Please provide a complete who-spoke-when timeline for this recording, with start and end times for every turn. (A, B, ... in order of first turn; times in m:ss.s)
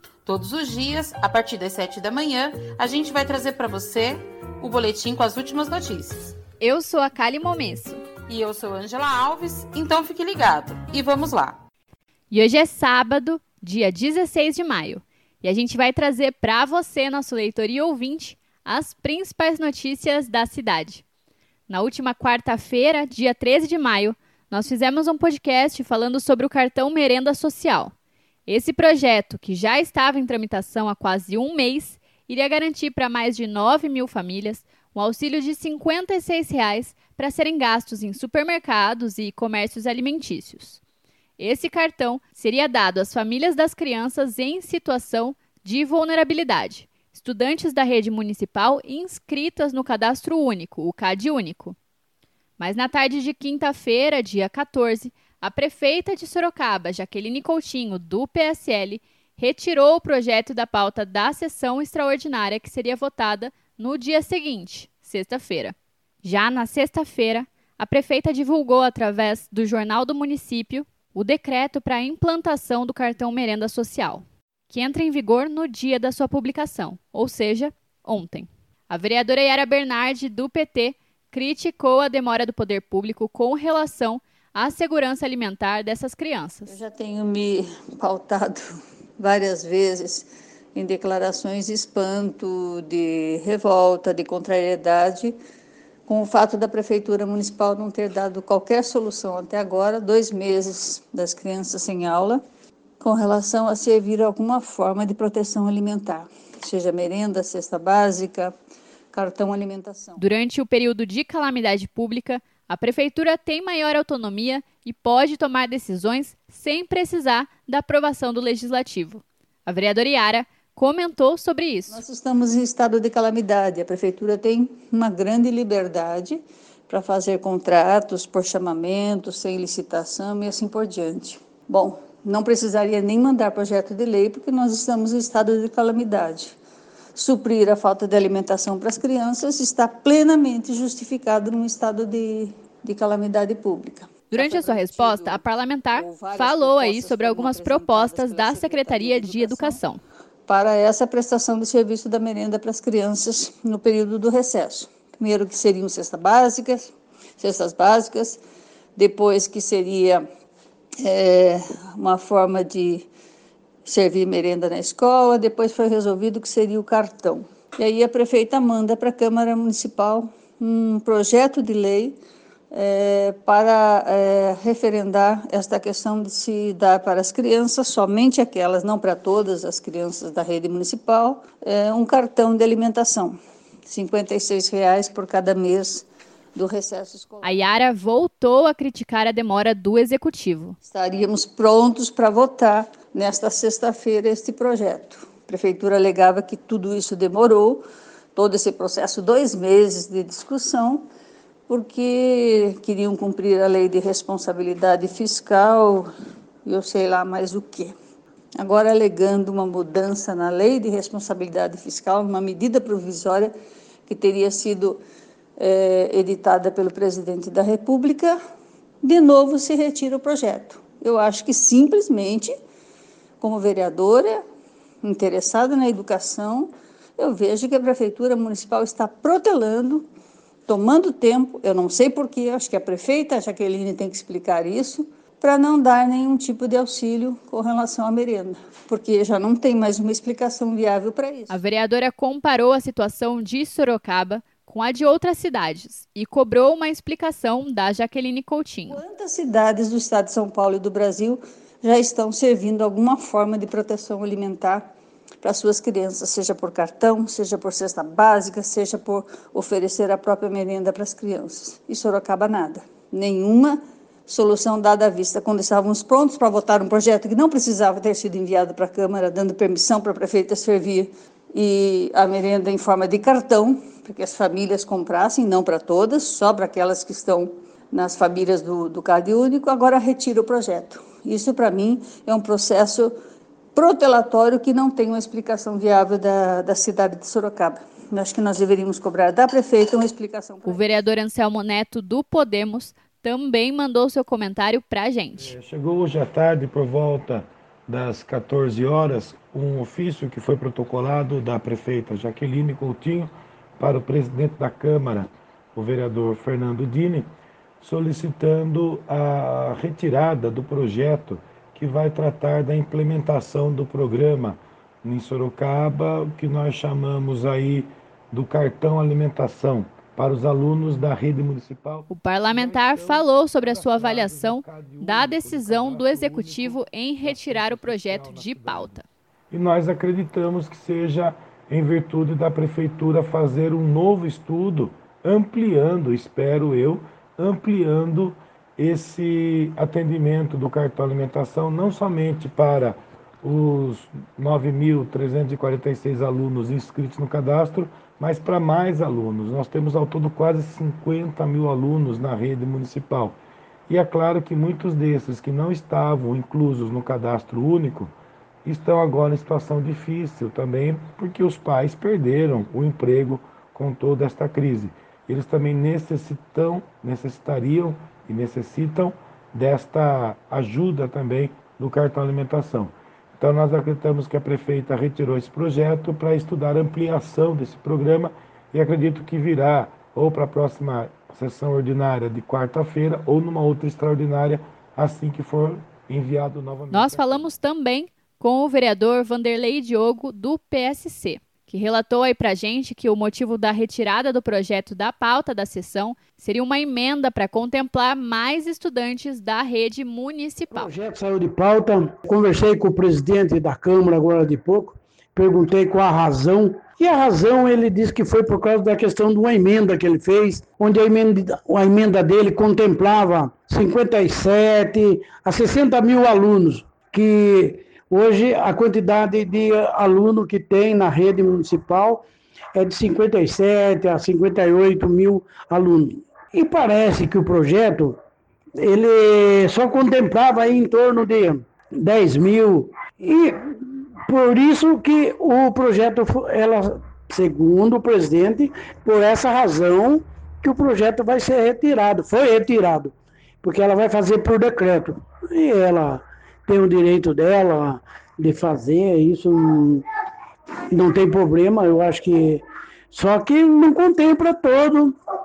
0:00.2-0:06.4 A
0:06.6-0:08.0 B
0:08.3-0:11.6 A
0:12.3-0:21.0 B
0:21.7-0:27.9 B
0:28.5-0:40.8 B
0:41.4-0:51.8 B
0:52.6-1:26.8 B
1:26.7-1:28.6 C
1:29.2-1:35.4 C
1:36.1-1:42.4 C
1:43.0-1:48.5 C
1:49.1-1:50.2 C
1:50.2-2:02.0 B
2:01.9-2:16.6 C
2:17.1-2:29.8 C
2:24.3-2:30.0 B
2:30.5-2:38.4 C
2:39.0-2:40.2 C
2:41.0-2:43.1 C
2:43.8-2:52.2 C
2:52.7-3:07.6 C
3:07.4-3:10.8 B
3:10.8-3:21.0 C
3:21.7-3:26.1 C
3:26.6-3:27.9 C
3:28.6-3:33.5 C
3:34.1-3:35.0 C
3:35.6-3:38.4 C
3:39.0-3:42.5 C
3:43.4-3:44.4 C
3:45.0-3:50.1 C
3:50.7-4:01.6 C
4:01.5-4:09.0 B
4:08.9-4:43.2 C
4:43.7-4:50.8 C
4:50.6-4:55.5 B
4:55.4-5:07.3 D
5:07.8-5:29.0 D
5:22.1-5:29.0 B
5:29.5-5:53.4 D
5:53.9-5:58.1 D
5:58.6-6:27.5 D
6:26.9-6:40.9 B
6:40.7-7:08.2 E
7:08.8-7:30.0 E
7:30.9-7:35.2 E